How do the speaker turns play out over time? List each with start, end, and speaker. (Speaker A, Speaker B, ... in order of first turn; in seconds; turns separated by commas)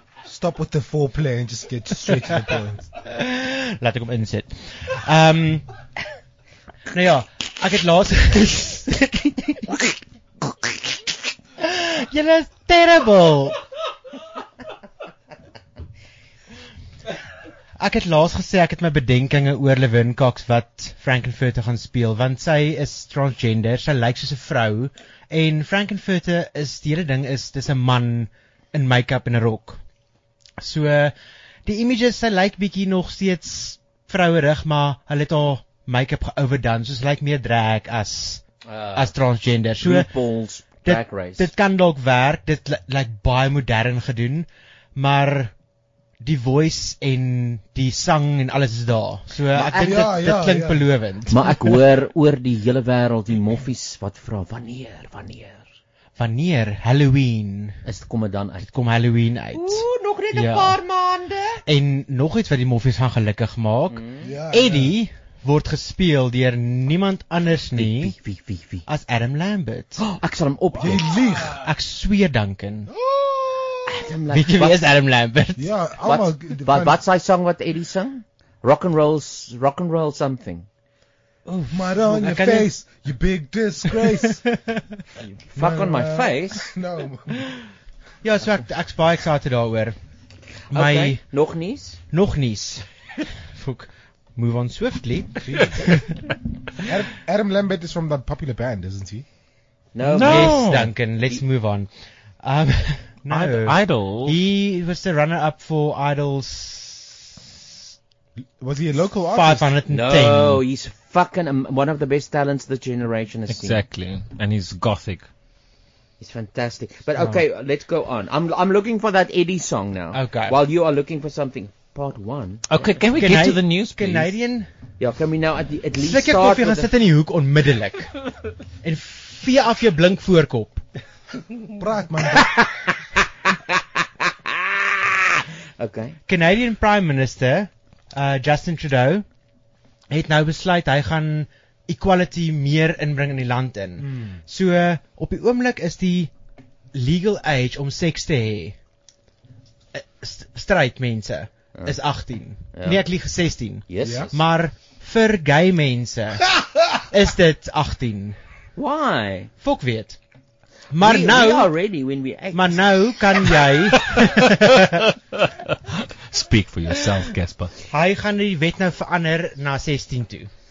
Speaker A: 0.2-2.9, Speaker B: 3.0-5.7, Speaker B: 6.9-9.8, Speaker B: 11.6-13.6, Speaker B: 17.8-29.8, Speaker B: 30.6-31.1, Speaker B: 31.7-38.4, Speaker C: 38.6-39.2, Speaker B: 39.0-40.1, Speaker C: 39.8-41.5, Speaker B: 40.8-45.5, Speaker B: 46.2-51.8, Speaker A: 49.5-51.1, Speaker C: 49.6-50.0, Speaker C: 51.3-55.7, Speaker B: 56.2-57.8, Speaker C: 57.9-58.7, Speaker B: 58.6-60.8, Speaker D: 59.5-61.6, Speaker B: 61.7-68.2, Speaker C: 63.9-64.3, Speaker A: 64.2-65.0, Speaker C: 67.8-68.8, Speaker B: 68.9-70.0, Speaker C: 70.0-71.1, Speaker A: 70.8-71.7, Speaker B: 71.5-72.9, Speaker A: 72.9-74.0, Speaker C: 73.9-74.9, Speaker B: 74.3-75.7, Speaker A: 75.6-77.0, Speaker C: 76.0-80.7, Speaker B: 81.5-82.7, Speaker A: 81.7-84.4, Speaker B: 83.9-84.8, Speaker C: 85.2-86.8, Speaker A: 85.6-87.4, Speaker B: 88.2-90.0, Speaker B: 90.7-91.2, Speaker C: 90.7-92.0, Speaker B: 92.1-92.8, Speaker B: 93.5-96.2, Speaker A: 95.4-95.9, Speaker A: 96.8-99.2, Speaker C: 99.9-100.7, Speaker E: 100.1-100.9, Speaker B: 100.2-107.2, Speaker E: 103.3-104.4, Speaker A: 108.6-109.8, Speaker B: 109.3-110.6, Speaker C: 109.9-113.8, Speaker E: 113.5-115.3, Speaker C: 116.2-122.9, Speaker B: 117.2-117.4, Speaker B: 120.1-120.6, Speaker E: 122.7-124.4, Speaker B: 123.2-124.7, Speaker C: 125.0-126.9, Speaker B: 126.0-128.1, Speaker B: 128.8-130.8, Speaker A: 131.8-132.5, Speaker C: 132.3-132.7, Speaker C: 133.7-136.2, Speaker B: 136.3-139.2, Speaker B: 140.1-146.3, Speaker A: 144.0-144.4, Speaker B: 146.9-148.8, Speaker B: 149.9-158.4, Speaker C: 152.7-153.1, Speaker C: 153.9-154.4, Speaker A: 154.0-154.3, Speaker C: 158.8-159.5, Speaker B: 159.6-160.2, Speaker B: 160.9-161.7, Speaker C: 161.0-162.9, Speaker B: 162.5-165.0, Speaker E: 164.1-164.4, Speaker E: 164.9-165.4, Speaker E: 166.3-167.7, Speaker B: 167.9-170.5